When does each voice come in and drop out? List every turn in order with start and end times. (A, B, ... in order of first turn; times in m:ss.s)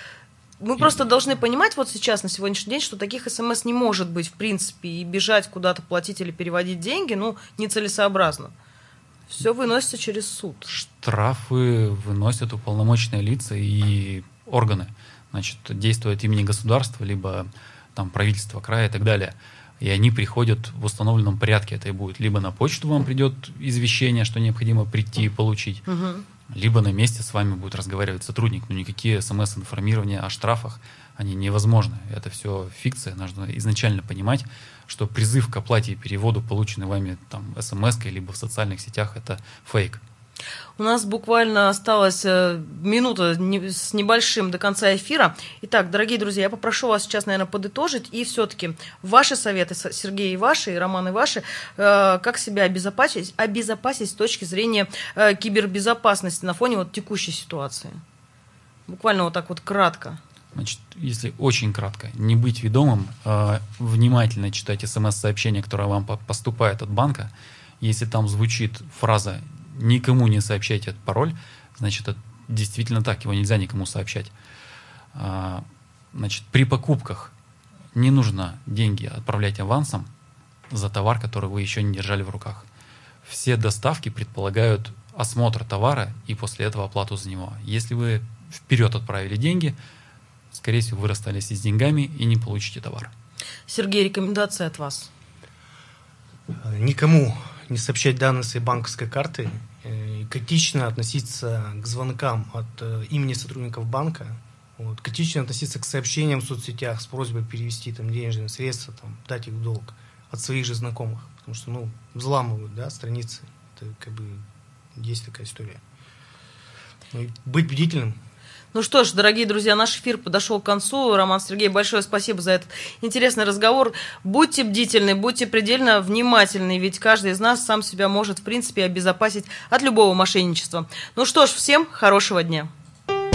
0:00.6-0:08.5 A
0:09.3-0:10.7 A
0:10.7-0:25.8 B
0:25.9-0:26.2 A
0:26.5-0:40.0 B
0:40.8-0:58.0 A
0:58.9-1:00.2 A
1:00.5-1:14.3 B
1:15.1-1:17.3 B
1:17.9-1:20.1 B
1:20.7-1:22.6 B
1:23.2-1:29.8 B
1:30.5-1:33.1 B
1:33.7-1:35.1 A
1:36.5-1:55.8 C
1:57.1-1:58.2 C
1:58.7-2:12.7 A